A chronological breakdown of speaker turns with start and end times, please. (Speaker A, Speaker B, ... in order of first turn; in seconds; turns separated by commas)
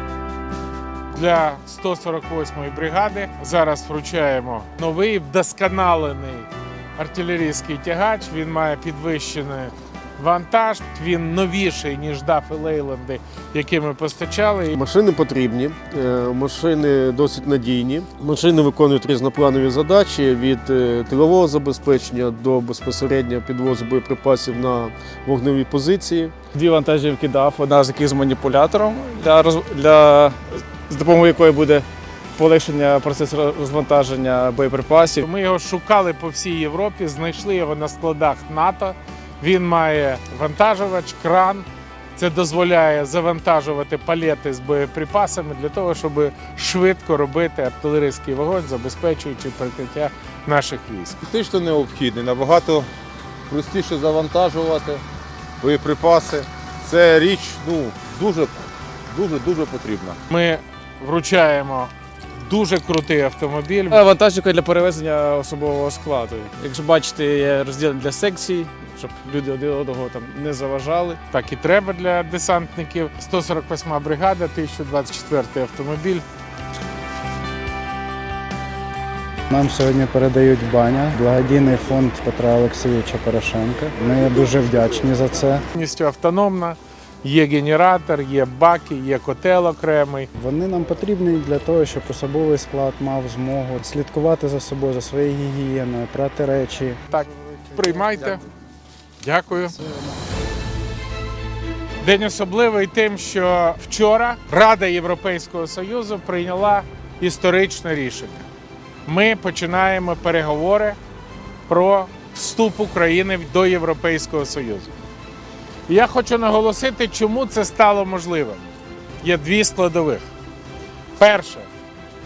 Speaker A: 1.1-14.8, Speaker B: 14.8-26.3, Speaker C: 26.5-35.3, Speaker A: 35.2-51.2, Speaker D: 51.2-52.9, Speaker D: 53.5-55.0, Speaker D: 55.6-60.2, Speaker A: 60.3-64.0, Speaker C: 63.9-71.2, Speaker A: 71.3-76.2, Speaker E: 79.5-85.7, Speaker A: 85.7-90.3, Speaker E: 90.3-97.0, Speaker A: 97.1-98.4, Speaker A: 99.2-99.8, Speaker A: 102.0-108.5, Speaker A: 109.1-111.0, Speaker A: 111.7-114.9, Speaker A: 115.9-118.6, Speaker A: 119.2-120.2, Speaker A: 121.2-121.7